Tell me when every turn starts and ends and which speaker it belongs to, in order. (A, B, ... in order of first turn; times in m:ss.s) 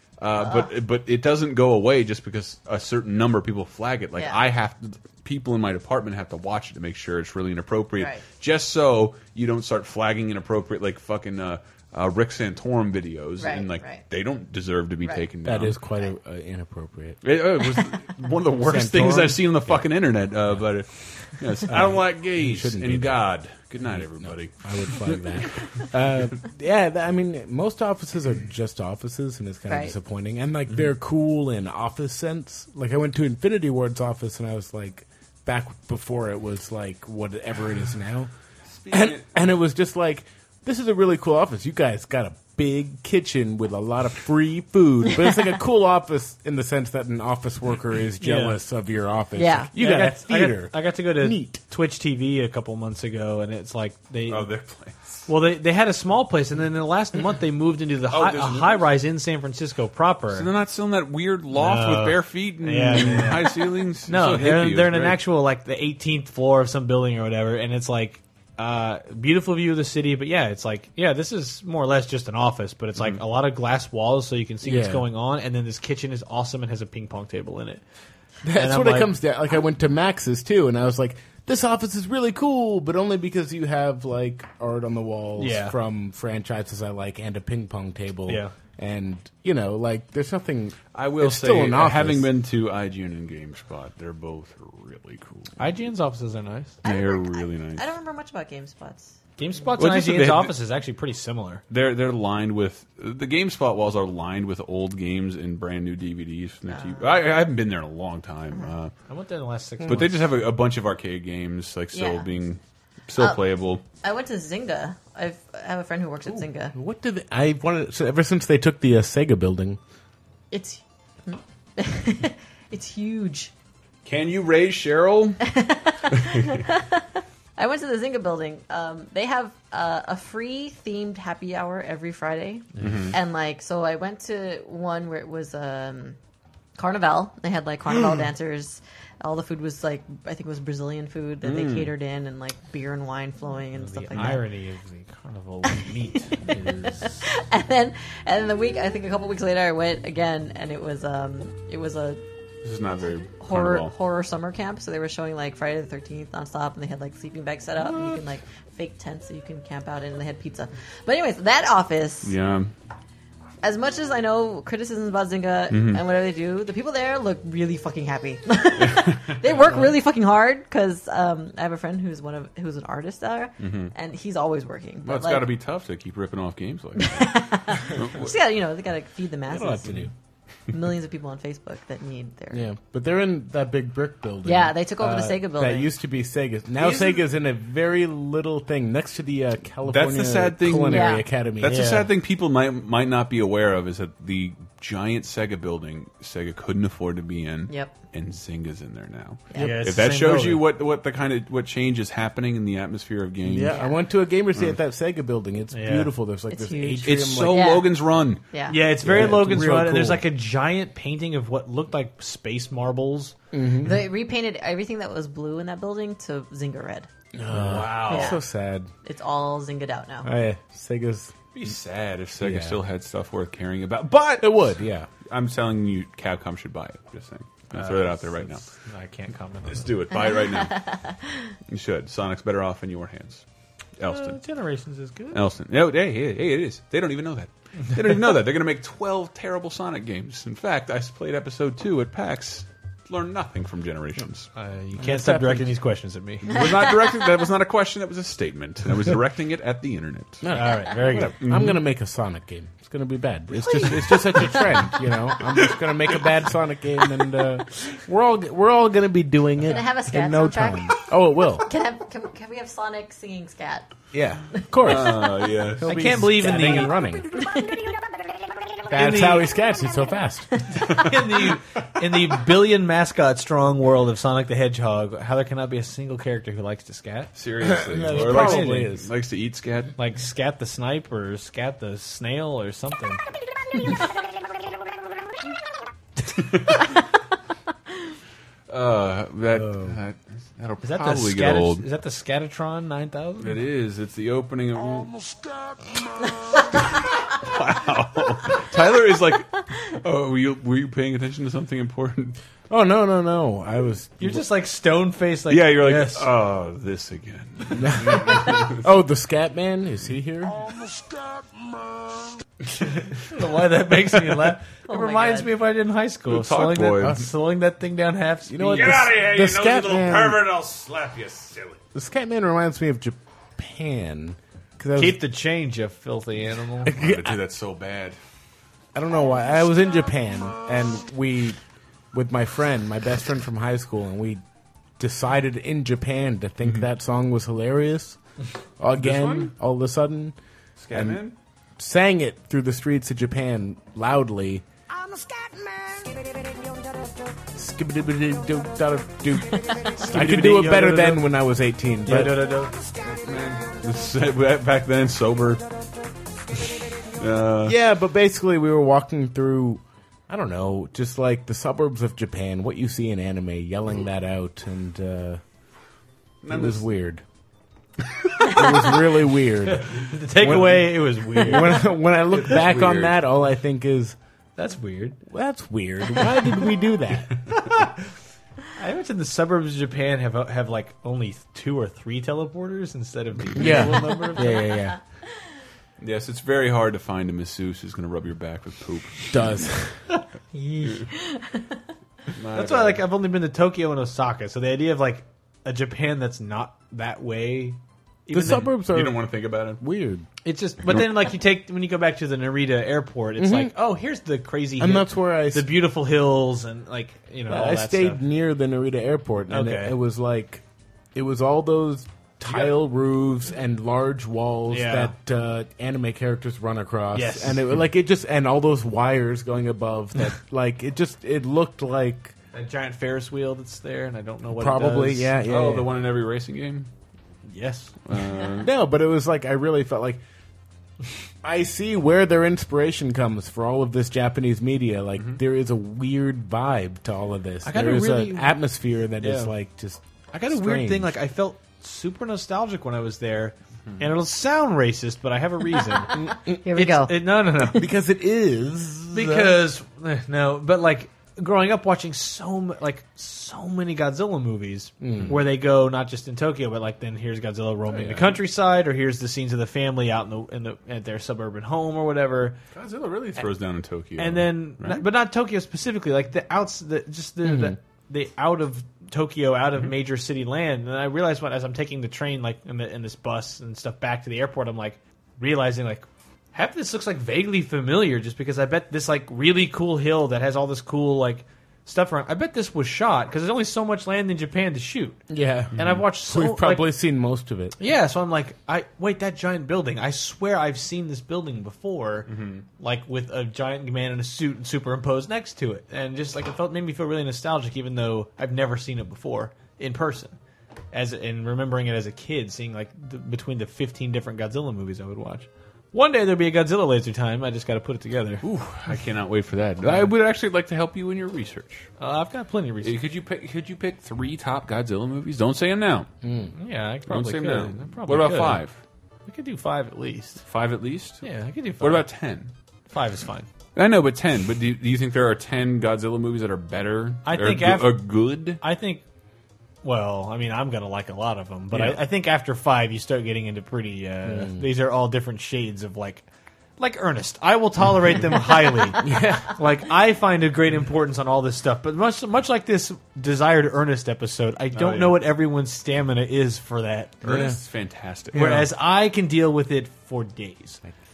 0:00.2-0:15.8 A
0:00.4-0:00.7 B
0:04.2-0:04.4 B
0:08.0-0:08.2 B
0:13.4-0:14.1 B
0:15.4-0:17.3 C
0:17.2-0:25.8 A
0:18.6-0:19.9 C
0:21.7-0:23.3 C
0:23.8-0:38.3 C
0:29.7-0:29.9 B
0:38.7-0:39.3 A
0:38.9-0:51.6 C
0:48.2-0:48.6 D
0:49.4-0:49.7 B
0:49.8-0:54.5 D
0:54.3-0:55.3 A
0:55.3-1:00.5 D
0:58.1-0:58.9 A
1:00.3-1:05.2 A
1:01.5-1:17.8 D
1:14.6-1:15.1 C
1:18.4-1:32.3 C
1:18.6-1:19.1 D
1:25.4-1:25.8 D
1:28.3-1:28.5 D
1:31.0-1:35.6 A
1:35.6-1:36.8 D
1:36.8-1:39.7 B
1:36.8-1:37.8 A
1:39.4-1:41.6 D
1:39.8-1:40.5 A
1:41.7-1:48.9 A
1:46.7-1:47.3 B
1:49.1-1:50.4 D
1:49.8-1:53.8 A
1:51.9-1:52.3 B
1:53.2-1:56.7 B
1:56.3-1:59.8 C
2:00.5-2:03.5 B
2:04.0-2:05.5 A
2:05.4-2:16.2 B
2:06.1-2:06.6 A
2:12.8-2:13.1 D
2:12.8-2:13.2 A
2:16.8-2:24.4 B
2:21.4-2:21.9 A
2:23.7-2:27.2 D
2:24.1-2:24.4 A
2:25.7-2:32.2 B
2:32.6-2:33.9 A
2:33.4-2:42.4 B
2:42.2-2:42.7 A
2:43.6-2:55.5 B
2:45.7-2:46.0 A
2:48.8-2:49.6 A
2:53.6-2:53.9 A
2:55.0-2:57.2 A
2:57.0-3:00.1 B
2:57.9-2:58.4 A
2:59.5-3:00.1 C
3:00.7-3:02.7 B
3:02.5-3:11.8 C
3:04.4-3:05.9 B
3:06.8-3:07.2 A
3:09.9-3:23.8 A
3:10.9-3:11.3 B
3:11.6-3:12.1 D
3:17.7-3:18.0 B
3:19.5-3:19.8 B
3:19.6-3:20.6 D
3:23.4-3:27.6 C
3:23.7-3:24.0 B
3:25.7-3:26.1 D
3:26.5-3:28.8 B
3:27.0-3:28.4 A
3:28.7-3:33.4 D
3:29.0-3:30.2 C
3:33.5-3:34.0 C
3:33.8-3:37.1 B
3:37.3-3:38.9 C
3:37.5-3:38.4 A
3:38.1-3:38.4 B
3:39.0-3:40.3 B
3:40.2-3:41.3 C
3:41.6-3:48.6 A
3:42.4-3:42.8 C
3:44.4-3:45.1 C
3:47.7-3:49.9 D
3:49.7-3:51.0 A
3:50.1-3:51.5 B
3:51.7-3:53.4 A
3:54.0-3:54.4 A
3:54.0-3:55.4 D
3:55.3-4:04.5 A
4:04.5-4:06.7 D
4:05.0-4:05.7 C
4:06.5-4:10.4 A
4:10.4-4:21.7 C
4:10.5-4:11.4 D
4:11.4-4:11.8 A
4:13.7-4:14.9 B
4:19.7-4:21.1 B
4:21.6-4:23.9 B
4:24.1-4:25.2 C
4:24.5-4:25.4 B
4:24.8-4:26.2 A
4:25.8-4:27.3 C
4:25.8-4:27.0 D
4:27.3-4:28.0 B
4:28.9-4:29.5 D
4:28.9-4:30.8 C
4:30.8-4:37.3 D
4:37.3-4:40.0 A
4:37.6-4:39.1 C
4:38.1-4:38.9 D
4:40.0-4:43.2 D
4:46.3-4:46.8 A
4:48.7-4:51.9 A
4:50.8-4:53.6 D
4:53.4-4:55.2 A
4:57.3-5:02.4 A
5:02.7-5:04.4 C
5:04.2-5:06.3 D
5:05.5-5:08.8 A
5:07.8-5:10.6 C
5:13.1-5:19.5 D
5:14.9-5:15.5 B
5:16.3-5:17.2 A
5:17.0-5:17.3 C
5:18.5-5:20.5 C
5:18.7-5:21.7 A
5:20.1-5:21.4 D
5:21.9-5:25.2 C
5:25.0-5:26.9 D
5:26.8-5:27.4 C
5:26.9-5:28.2 A
5:28.9-5:31.6 C
5:32.1-5:34.4 C
5:35.0-5:38.2 C
5:38.8-5:40.4 C
5:39.0-5:39.5 A
5:40.8-5:41.4 A
5:40.9-5:41.2 C
5:41.8-5:44.6 C
5:47.5-5:52.5 C
5:49.5-5:49.8 B
5:50.0-5:51.3 D
5:52.1-5:52.8 D
5:53.1-5:55.7 A
5:57.2-5:57.8 A
5:57.6-6:05.4 C
6:06.4-6:06.9 A
6:06.5-6:07.2 C
6:08.3-6:08.6 A
6:08.4-6:14.2 C
6:09.7-6:11.9 D
6:12.1-6:13.2 A
6:14.6-6:15.2 D
6:15.3-6:17.5 C
6:17.5-6:18.0 D
6:18.8-6:24.7 D
6:23.6-6:25.0 C
6:26.0-6:29.6 A
6:29.3-6:30.0 C
6:30.5-6:31.8 B
6:32.4-6:33.0 A
6:32.5-6:38.7 D
6:38.3-6:40.3 C
6:38.7-6:39.8 A
6:40.4-6:48.2 D
6:43.4-6:43.7 C
6:44.8-6:45.8 C
6:47.5-6:50.6 C
6:49.5-6:50.0 D
6:51.2-7:02.3 C
6:54.7-6:55.1 D
6:57.1-6:57.7 D
7:02.5-7:05.4 D
7:04.5-7:05.9 C
7:05.4-7:06.9 A
7:07.5-7:08.0 D
7:08.0-7:08.7 A
7:08.6-7:10.2 C
7:11.4-7:21.1 C
7:17.6-7:18.6 D
7:19.2-7:19.5 D
7:20.3-7:27.9 D
7:26.1-7:27.9 B
7:26.1-7:26.6 C
7:27.7-7:29.6 C
7:29.1-7:42.6 D
7:35.0-7:35.4 C
7:37.9-7:38.4 A
7:42.7-7:45.1 A
7:44.2-8:06.9 D
7:47.4-7:47.8 C
8:05.3-8:07.8 C
8:07.8-8:20.4 D
8:12.3-8:12.6 A
8:20.9-8:28.4 D
8:28.4-8:31.9 A
8:29.8-8:30.1 D
8:32.0-8:33.0 D
8:32.8-8:36.1 A
8:36.2-8:36.5 C
8:36.5-8:38.6 D
8:37.1-8:38.8 A
8:39.3-8:40.4 D
8:40.4-8:41.3 A
8:41.2-8:42.1 D
8:41.8-8:42.5 A
8:42.9-8:43.5 D
8:43.8-8:48.6 A
8:47.2-8:49.0 D
8:49.8-8:56.3 D
8:51.7-8:52.0 C
8:54.2-8:54.7 C
8:56.8-9:07.2 D
8:59.0-8:59.6 C
9:04.7-9:05.2 A
9:07.2-9:08.7 A
9:07.2-9:07.6 C
9:08.3-9:10.8 D